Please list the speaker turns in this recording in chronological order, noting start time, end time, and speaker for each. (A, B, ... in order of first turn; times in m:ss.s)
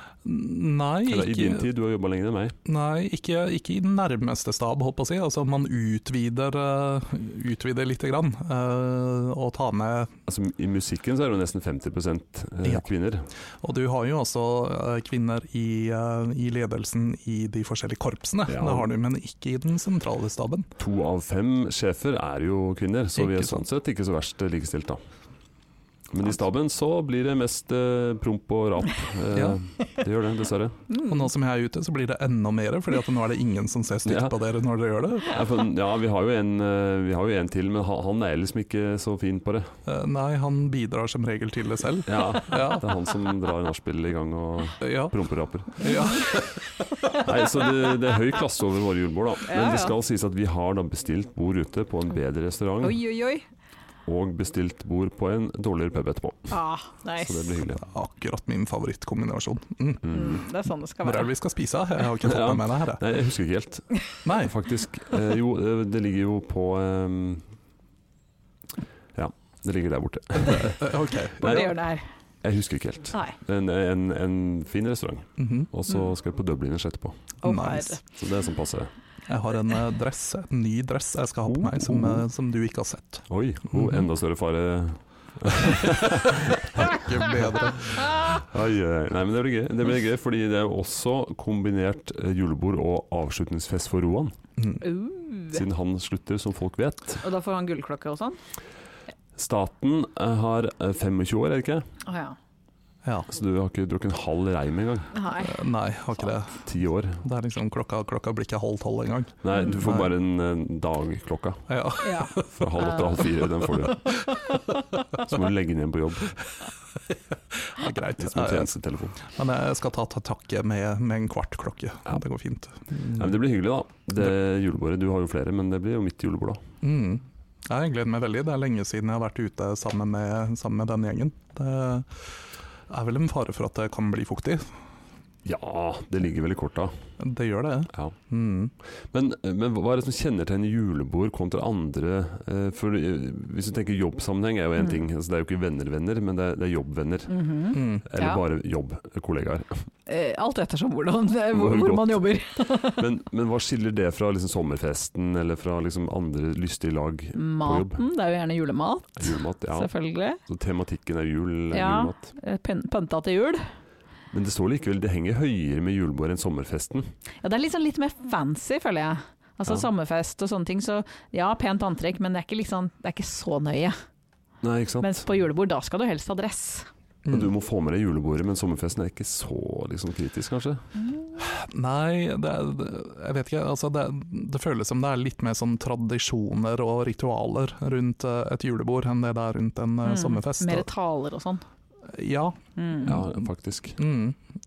0:00.2-0:01.7 A
0:01.1-0:02.6 B
0:02.6-0:10.1 A
0:10.3-0:13.3 B
0:13.6-0:20.7 A
0:18.5-0:18.9 B
0:20.8-0:25.0 B
0:23.2-0:23.6 A
0:26.1-0:30.8 B
0:29.3-0:29.6 A
0:30.9-0:31.3 C
0:31.0-0:35.4 A
0:34.0-0:34.3 B
0:35.2-0:39.7 B
0:39.8-0:42.8 A
0:42.1-0:46.0 B
0:44.8-0:45.1 A
0:45.7-0:46.8 A
0:45.8-0:46.3 C
0:47.1-0:53.0 B
0:49.4-0:49.9 C
0:52.8-0:53.4 C
0:54.0-0:56.5 B
0:56.5-0:57.6 C
0:57.2-0:57.8 B
0:57.8-1:00.2 A
1:00.0-1:00.4 B
1:00.1-1:01.3 C
1:01.0-1:03.0 A
1:02.2-1:07.4 B
1:04.2-1:04.5 A
1:09.1-1:11.8 B
1:10.5-1:11.7 A
1:11.4-1:12.0 C
1:12.4-1:17.3 B
1:15.4-1:15.7 A
1:17.4-1:18.0 C
1:17.4-1:18.0 A
1:18.1-1:18.9 B
1:19.3-1:24.1 A
1:21.5-1:22.2 B
1:23.3-1:27.0 B
1:26.8-1:28.1 A
1:27.9-1:28.4 C
1:27.9-1:34.3 B
1:34.8-1:35.6 C
1:35.5-1:37.2 B
1:37.2-1:38.4 C
1:39.4-1:41.8 B
1:42.0-1:42.4 C
1:43.0-1:43.3 A
1:43.3-1:45.1 B
1:45.1-1:45.6 C
1:45.4-1:46.6 A
1:46.6-1:47.2 B
1:47.2-1:50.1 A
1:49.4-1:51.7 B
1:51.7-1:52.5 A
1:52.0-1:53.2 C
1:52.3-1:54.2 B
1:55.1-1:56.4 B
1:57.6-1:58.7 A
1:58.2-1:59.2 B
1:59.2-2:03.4 A
2:03.1-2:06.6 B
2:06.8-2:14.7 A
2:15.4-2:16.9 B
2:17.2-2:18.7 A
2:19.0-2:29.8 B
2:27.3-2:28.4 C
2:27.7-2:28.0 A
2:30.1-2:33.0 C
2:31.5-2:38.0 B
2:37.4-2:40.4 C
2:39.2-2:42.3 B
2:41.7-2:43.6 C
2:44.3-2:47.1 B
2:47.4-2:54.0 C
2:54.6-2:55.2 B
2:55.0-2:56.9 C
2:57.2-2:57.5 A
2:57.3-3:00.8 B
3:01.4-3:10.9 A
3:10.0-3:11.6 C
3:12.0-3:13.3 A
3:12.8-3:13.2 C
3:13.0-3:14.0 B
3:14.0-3:14.4 A